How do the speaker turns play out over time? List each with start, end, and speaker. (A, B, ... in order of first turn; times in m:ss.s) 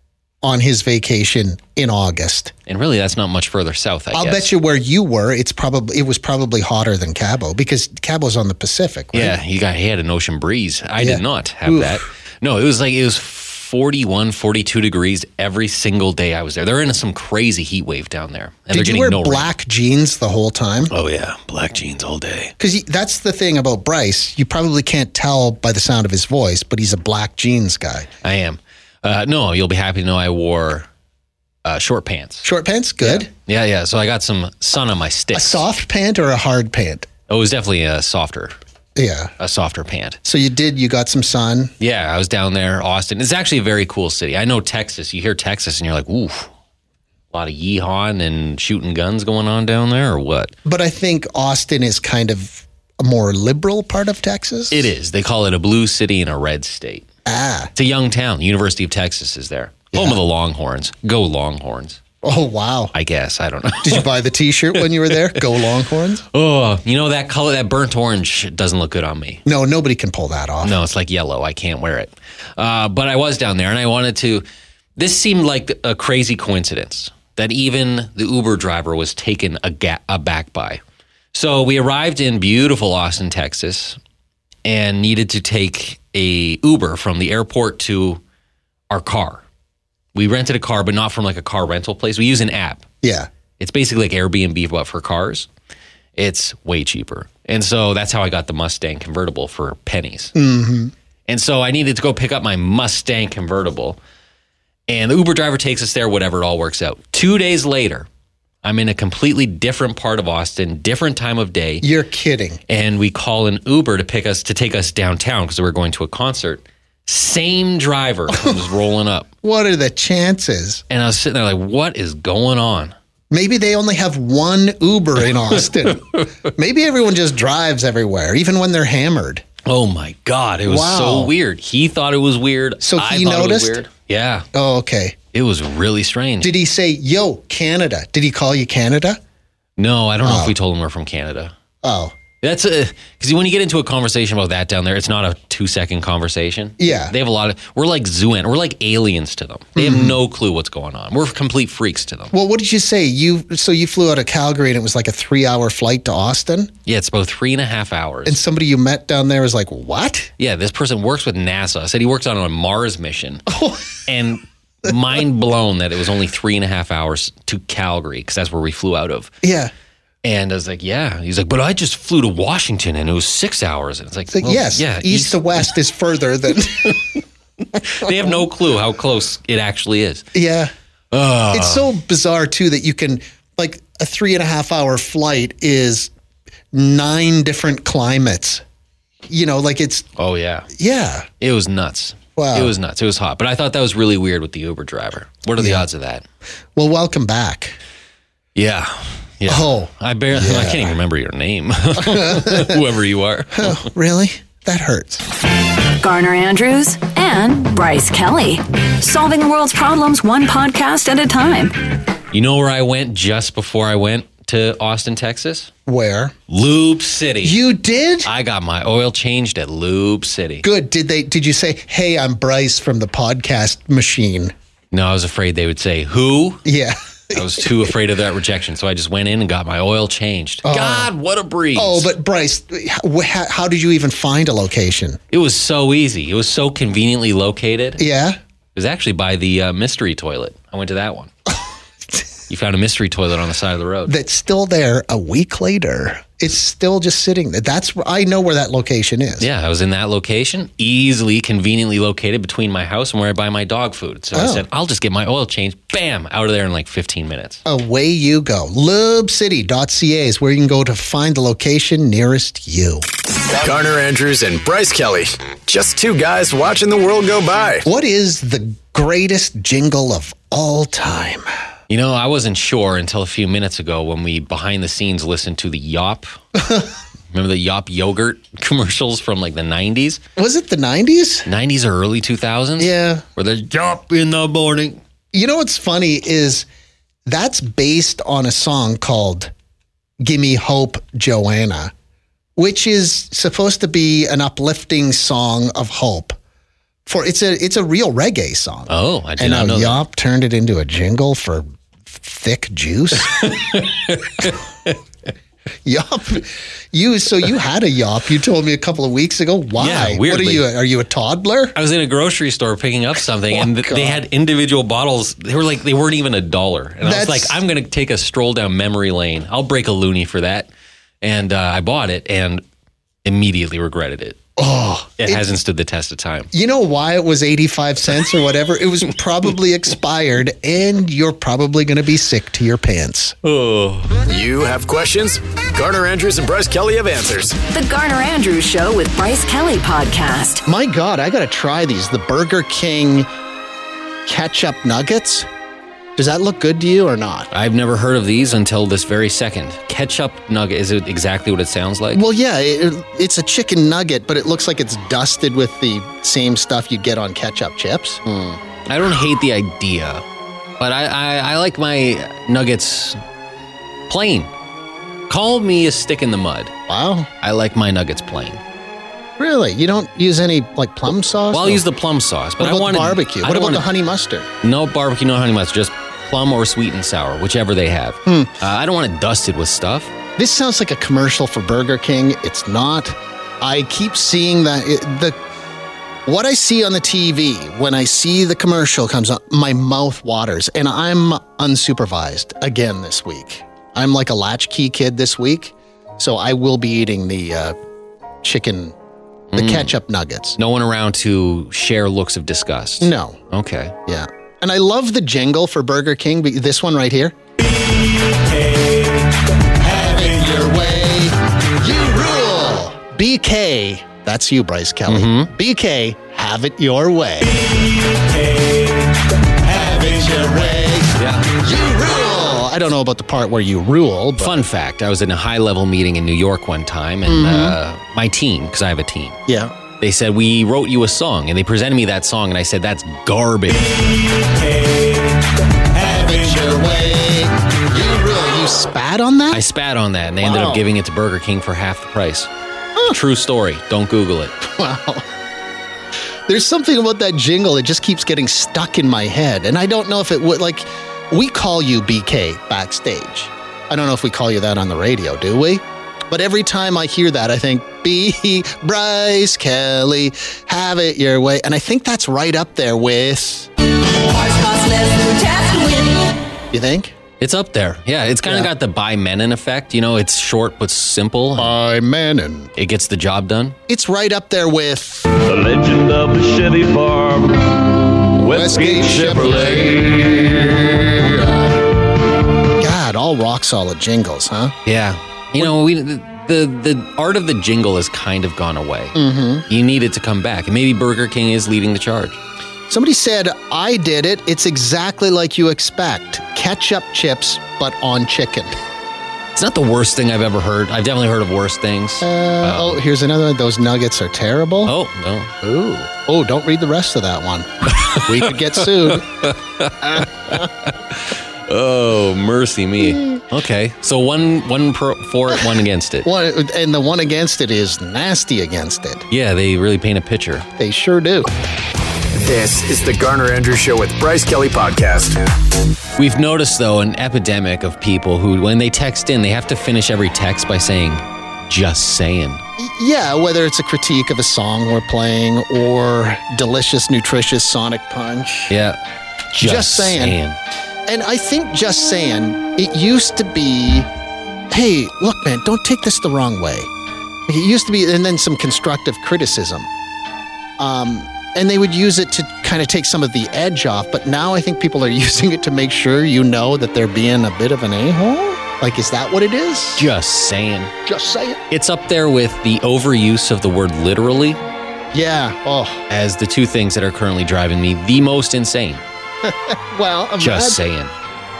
0:00.4-0:02.5 A
0:02.7-0:04.5 B
0:04.1-0:09.4 A
0:09.1-0:19.5 B
0:11.0-0:12.0 A
0:18.7-0:20.9 A
0:20.9-0:22.5 B
0:22.6-0:28.1 A
0:28.2-0:30.9 B
0:31.6-0:32.5 B
0:32.4-0:33.3 A
0:33.0-0:35.6 B
0:35.3-0:37.1 A
0:37.3-0:38.6 B
0:39.0-0:39.3 A
0:39.4-0:40.2 B
0:40.2-0:41.7 A
0:41.8-0:46.5 B
0:47.3-0:50.5 B
0:50.7-0:54.9 A
0:54.7-0:57.0 B
0:57.2-0:57.7 A
0:57.8-1:02.0 B
0:59.9-1:00.2 A
1:02.2-1:02.9 A
1:02.9-1:04.1 B
1:03.8-1:06.2 A
1:04.8-1:05.4 B
1:06.3-1:09.4 B
1:09.4-1:10.8 A
1:10.6-1:14.4 B
1:15.0-1:20.8 B
1:21.3-1:24.0 B
1:24.6-1:28.2 B
1:28.9-1:29.4 B
1:30.2-1:32.8 B
1:33.0-1:33.3 A
1:33.6-1:35.5 B
1:36.2-1:40.3 B
1:40.4-1:40.9 A
1:41.3-1:44.0 B
1:44.9-1:48.1 B
1:48.6-1:51.9 B
1:51.8-1:52.6 A
1:52.7-1:59.3 B
1:58.3-1:58.6 A
1:59.4-2:00.8 A
2:00.9-2:03.0 B
2:03.3-2:09.4 A
2:05.9-2:06.2 B
2:09.7-2:14.5 B
2:10.7-2:11.3 A
2:12.8-2:13.8 A
2:14.5-2:15.2 A
2:15.3-2:16.5 B
2:16.4-2:19.2 A
2:19.8-2:21.5 B
2:20.2-2:20.6 A
2:21.8-2:22.2 A
2:22.4-2:32.3 B
2:26.8-2:27.1 A
2:29.8-2:30.2 A
2:32.3-2:36.7 A
2:36.9-2:38.4 B
2:38.3-2:40.3 A
2:40.4-2:43.5 B
2:43.5-2:43.9 A
2:44.0-2:49.3 B
2:49.4-2:49.7 A
2:50.2-2:55.6 B
2:54.3-2:57.2 A
2:57.8-3:00.3 B
3:00.3-3:00.7 A
3:01.1-3:01.9 B
3:01.5-3:06.1 A
3:06.7-3:08.6 A
3:09.3-3:10.1 A
3:10.2-3:10.7 B
3:10.7-3:11.3 A
3:11.4-3:16.2 B
3:12.4-3:12.7 A
3:15.6-3:15.8 A
3:16.8-3:17.8 A
3:18.6-3:23.9 B
3:19.5-3:21.0 A
3:22.0-3:22.8 A
3:23.6-3:25.2 A
3:26.0-3:31.7 C
3:32.3-3:35.7 B
3:35.9-3:36.4 A
3:36.5-3:37.6 B
3:37.4-3:38.3 A
3:38.2-3:40.6 B
3:40.6-3:44.5 A
3:44.9-3:46.6 B
3:46.6-3:47.9 A
3:47.3-3:52.1 B
3:50.6-3:51.1 A
3:51.8-3:55.2 A
3:55.3-3:58.0 B
3:58.0-3:58.4 A
3:58.8-4:01.3 B
4:02.5-4:04.2 B
4:04.1-4:09.5 A
4:09.4-4:17.6 B
4:14.3-4:14.6 A
4:17.7-4:23.1 A
4:23.5-4:27.8 D
4:27.8-4:31.5 A
4:31.9-4:36.4 B
4:36.6-4:36.9 A
4:37.3-4:40.2 B
4:40.4-4:41.5 A
4:41.5-4:45.0 B
4:42.8-4:43.2 A
4:45.3-4:46.7 A
4:47.3-4:49.5 A
4:50.2-4:51.9 A
4:52.6-4:56.4 A
4:57.1-5:03.5 A
4:58.9-5:00.0 B
5:03.3-5:05.0 B
5:05.8-5:11.8 A
5:09.8-5:10.7 B
5:11.8-5:20.7 B
5:13.5-5:14.2 A
5:17.0-5:17.6 A
5:21.2-5:22.6 B
5:23.2-5:24.4 B
5:24.6-5:25.6 A
5:25.2-5:26.5 B
5:26.5-5:33.4 A
5:33.4-5:34.2 B
5:34.3-5:37.6 D
5:37.6-5:40.6 C
5:40.6-5:43.3 A
5:44.3-5:45.5 A
5:46.2-5:47.5 A
5:47.5-5:52.2 B
5:52.1-5:58.6 A
5:58.9-6:00.2 B
6:00.8-6:03.2 B
6:04.1-6:04.5 B
6:05.3-6:06.7 B
6:06.9-6:07.3 A
6:07.4-6:08.6 B
6:09.4-6:11.8 A
6:11.5-6:13.9 B
6:12.6-6:14.5 A
6:14.6-6:20.1 B
6:18.3-6:18.5 A
6:20.4-6:25.4 A
6:26.3-6:37.8 A
6:38.4-6:39.0 A
6:39.5-6:39.9 B
6:39.5-6:40.6 A
6:40.6-6:44.0 B
6:43.0-6:43.4 A
6:44.1-6:47.4 A
6:49.8-6:57.6 A
6:55.1-6:55.5 B
6:58.3-6:58.9 A
6:59.6-7:04.6 A
7:01.2-7:01.5 B
7:04.4-7:09.4 B
7:07.3-7:07.8 A
7:09.5-7:09.8 A
7:10.0-7:14.0 B
7:15.8-7:19.6 A
7:19.5-7:22.5 B
7:20.4-7:20.8 A
7:23.1-7:24.6 B
7:24.6-7:25.3 A
7:26.5-7:43.7 A
7:44.2-7:46.4 C
7:46.7-7:47.2 A
7:47.4-7:51.8 B
7:48.4-7:48.7 A
7:51.6-7:52.7 A
7:52.8-7:53.8 B
7:53.9-7:55.3 A
7:55.4-8:00.8 E
7:58.5-8:00.1 A
8:01.0-8:01.7 A
8:02.8-8:04.8 A
8:04.9-8:09.2 B
8:09.2-8:09.7 A
8:09.7-8:12.4 B
8:12.9-8:18.8 A
8:19.6-8:23.0 B
8:22.2-8:25.0 A
8:24.8-8:25.5 B
8:25.6-8:29.3 A
8:29.4-8:36.3 B
8:33.1-8:33.4 A
8:36.2-8:39.3 A
8:39.3-8:40.7 B
8:40.8-8:41.5 A
8:42.3-8:45.4 D
8:46.2-8:52.6 B
8:52.8-8:58.7 A
8:58.7-8:59.0 B
8:59.5-9:00.6 B
8:59.6-9:00.4 A
9:01.1-9:04.1 A
9:04.7-9:06.9 A
9:07.5-9:09.9 A
9:10.8-9:20.1 A
9:20.0-9:20.9 B
9:21.0-9:21.6 A
9:21.7-9:24.6 B
9:25.1-9:26.0 A
9:26.1-9:29.0 B
9:29.4-9:30.8 A
9:30.4-9:31.1 B